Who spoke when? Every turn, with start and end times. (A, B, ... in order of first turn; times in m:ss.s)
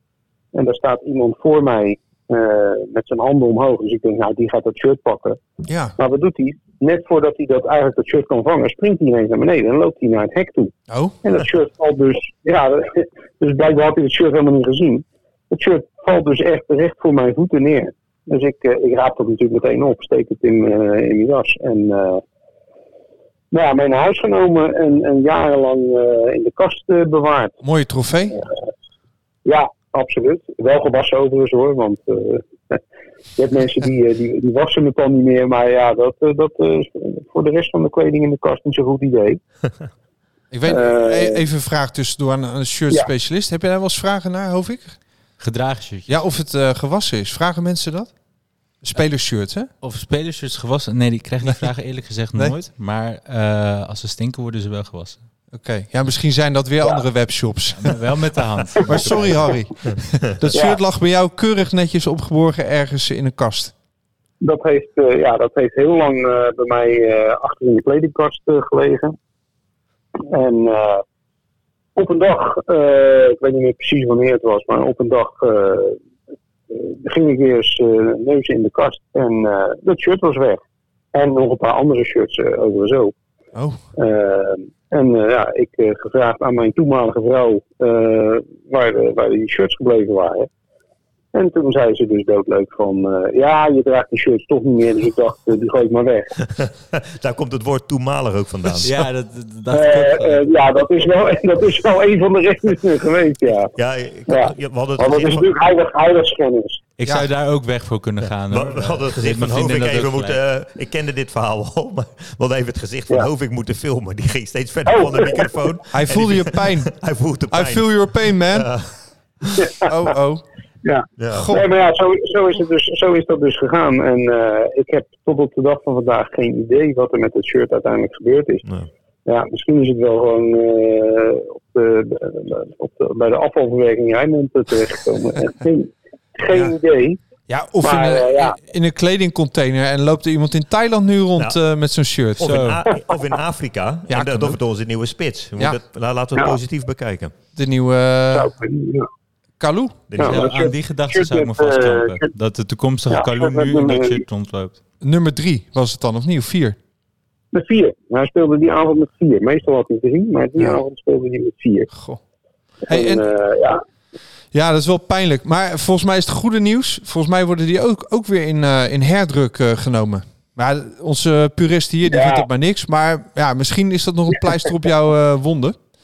0:00.5-0:05.4 A
0:05.7-0:06.0 B
0:06.0-0:10.7 A
0:10.9-0:11.2 B
0:11.2-0:22.2 A
0:23.5-0:27.6 A
0:27.6-0:28.4 B
0:29.4-0:32.8 A
0:33.4-0:39.4 A
0:40.5-0:45.0 B
0:40.6-0:41.4 A
0:45.4-0:46.1 C
0:46.1-0:48.1 B
0:48.8-0:49.7 B
0:49.8-0:55.2 C
0:55.5-0:58.0 B
0:57.7-0:59.5 C
0:58.8-1:03.7 B
1:00.5-1:00.8 A
1:04.4-1:09.2 A
1:10.3-1:11.0 A
1:12.0-1:16.0 A
1:16.7-1:20.6 A
1:21.1-1:23.1 A
1:23.6-1:23.8 B
1:24.0-1:30.5 A
1:31.3-1:36.3 A
1:36.4-1:39.0 D
1:38.8-1:40.4 C
1:39.7-1:43.7 A
1:43.8-1:45.5 D
1:44.3-1:46.8 A
1:47.0-1:50.4 C
1:48.2-1:59.6 D
1:54.9-1:55.5 A
1:55.9-1:58.7 B
1:59.6-1:59.9 A
1:59.9-2:00.4 B
2:00.8-2:08.7 A
2:01.2-2:01.5 D
2:01.3-2:01.6 B
2:09.3-2:17.2 A
2:17.5-2:22.6 B
2:17.8-2:18.6 A
2:22.4-2:27.3 D
2:22.4-2:22.8 C
2:24.1-2:24.6 B
2:27.6-2:28.5 B
2:28.3-2:29.1 A
2:29.6-2:30.0 B
2:30.1-2:30.5 D
2:30.2-2:32.3 A
2:30.2-2:34.8 C
2:33.1-2:34.2 A
2:35.0-2:36.8 B
2:37.5-2:41.9 A
2:41.9-2:42.2 B
2:42.9-2:43.2 B
2:42.9-2:43.8 A
2:44.5-2:55.8 B
2:52.1-2:52.5 A